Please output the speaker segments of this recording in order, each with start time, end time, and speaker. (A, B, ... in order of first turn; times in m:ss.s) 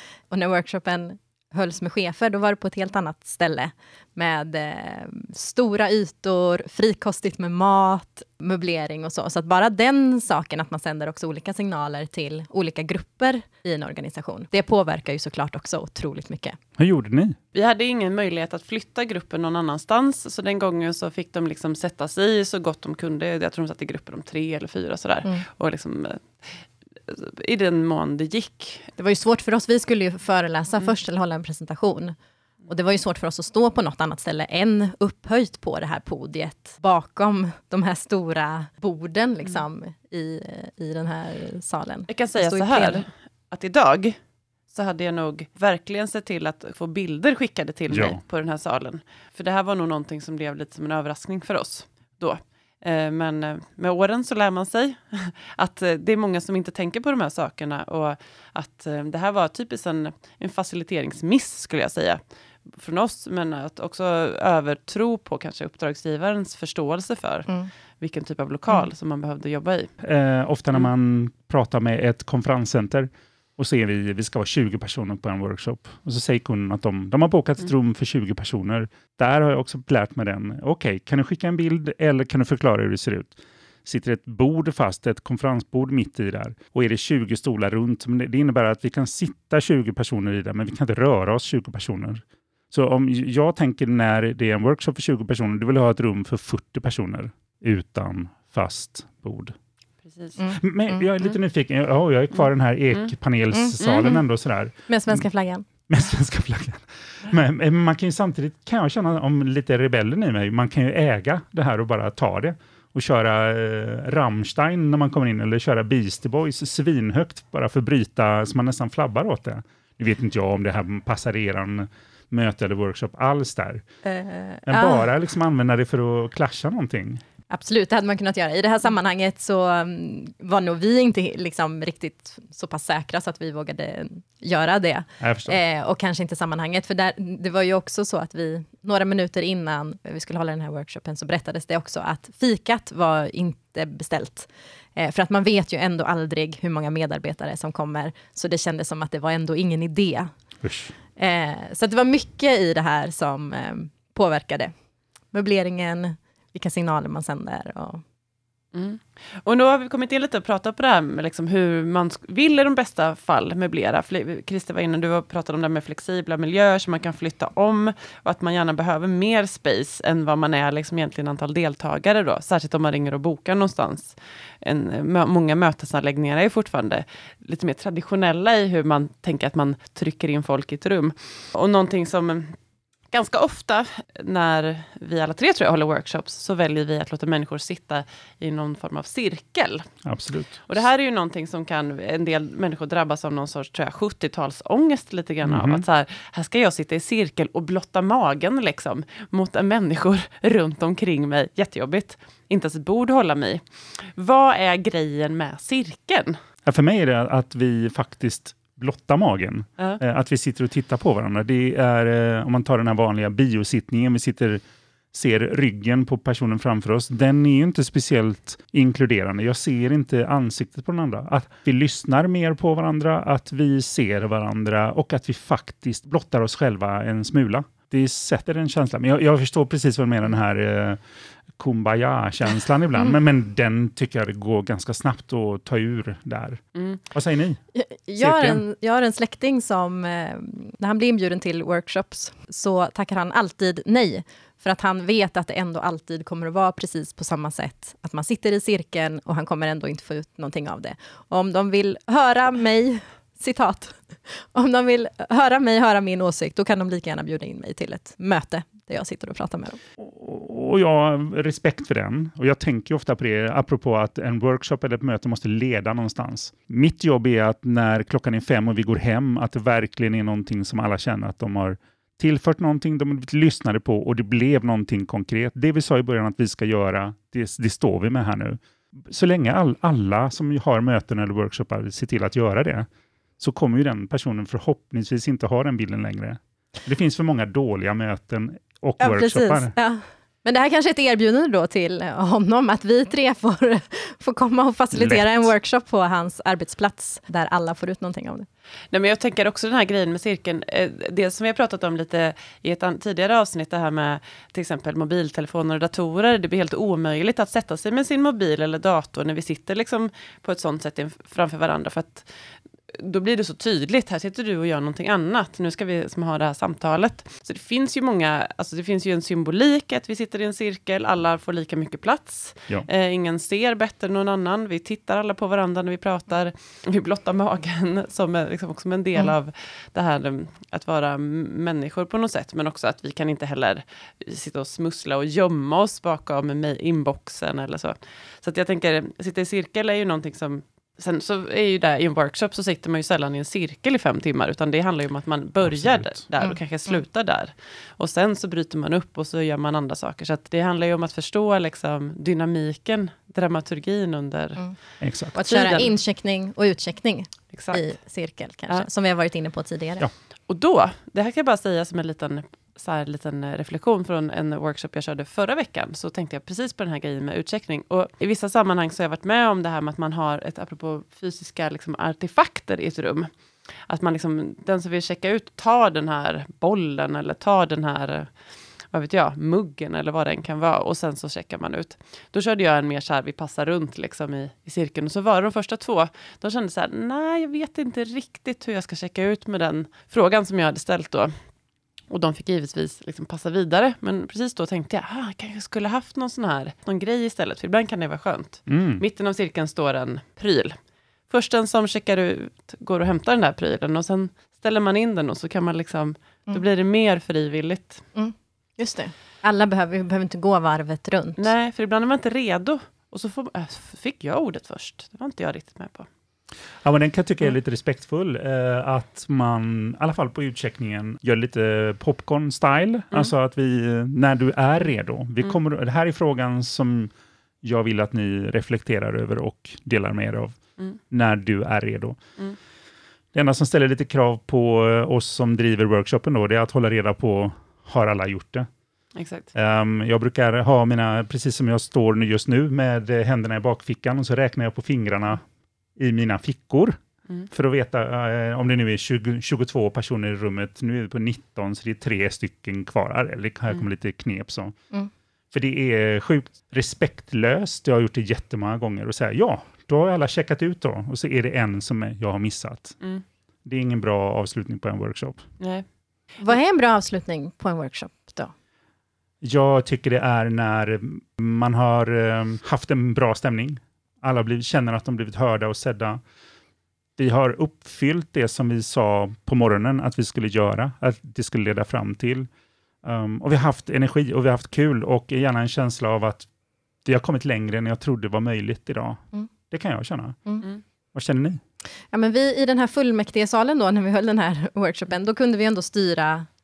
0:00.3-0:16.6 A
0:16.8-0:17.4 B
0:17.5-0:26.5 C
0:27.1-0:28.9 C
0:29.0-0:32.1 A
0:32.7-0:43.0 A
0:42.1-0:44.2 C
0:44.7-1:02.2 C
0:47.9-0:48.2 B
1:02.7-1:09.9 C
1:10.0-1:39.5 B
1:40.1-1:40.4 C
1:40.4-1:41.0 A
1:40.5-1:45.2 B
1:43.5-1:44.2 A
1:44.9-1:45.7 A
1:45.9-2:03.8 B
2:04.0-2:05.1 A
2:04.7-2:07.2 B
2:07.5-2:30.3 A
2:15.2-2:15.6 B
2:30.6-2:30.9 B
2:31.2-2:34.7 A
2:35.3-2:38.0 A
2:38.7-3:02.6 C
3:03.1-3:09.9 C
3:10.0-3:10.6 B
3:10.6-3:26.4 C
3:15.4-3:15.8 B
3:26.7-3:34.6 B
3:35.1-3:51.0 B
3:51.6-3:57.6 B
3:57.7-4:19.8 A
3:58.2-3:58.6 B
4:20.0-4:42.9 B
4:43.4-4:49.7 B
4:49.0-4:58.5 A
4:54.9-4:55.4 B
4:58.9-5:12.3 C
5:12.9-5:54.6 C
5:45.6-5:46.2 B
5:46.4-5:46.9 A
5:55.0-5:55.4 B
5:55.3-6:00.1 A
5:55.5-5:55.9 C
5:57.5-5:57.9 C
6:00.5-6:13.3 C
6:13.9-6:18.3 C
6:18.9-6:31.3 C
6:32.1-6:40.8 C
6:38.7-6:39.0 B
6:41.3-6:48.0 C
6:48.2-6:51.5 A
6:51.4-6:56.1 C
6:56.8-7:10.6 B
7:11.1-7:12.2 B
7:13.3-7:18.7 B
7:19.2-7:19.5 C
7:19.5-7:25.4 B
7:26.0-7:27.0 B
7:27.5-7:34.7 B
7:35.5-7:43.0 B
7:43.6-7:45.4 B
7:45.6-7:45.8 C
7:46.4-7:48.5 A
7:49.4-7:56.2 B
7:57.2-8:02.5 B
8:03.0-8:06.5 B
8:07.0-8:10.4 B
8:11.1-8:11.6 B
8:12.1-8:16.5 A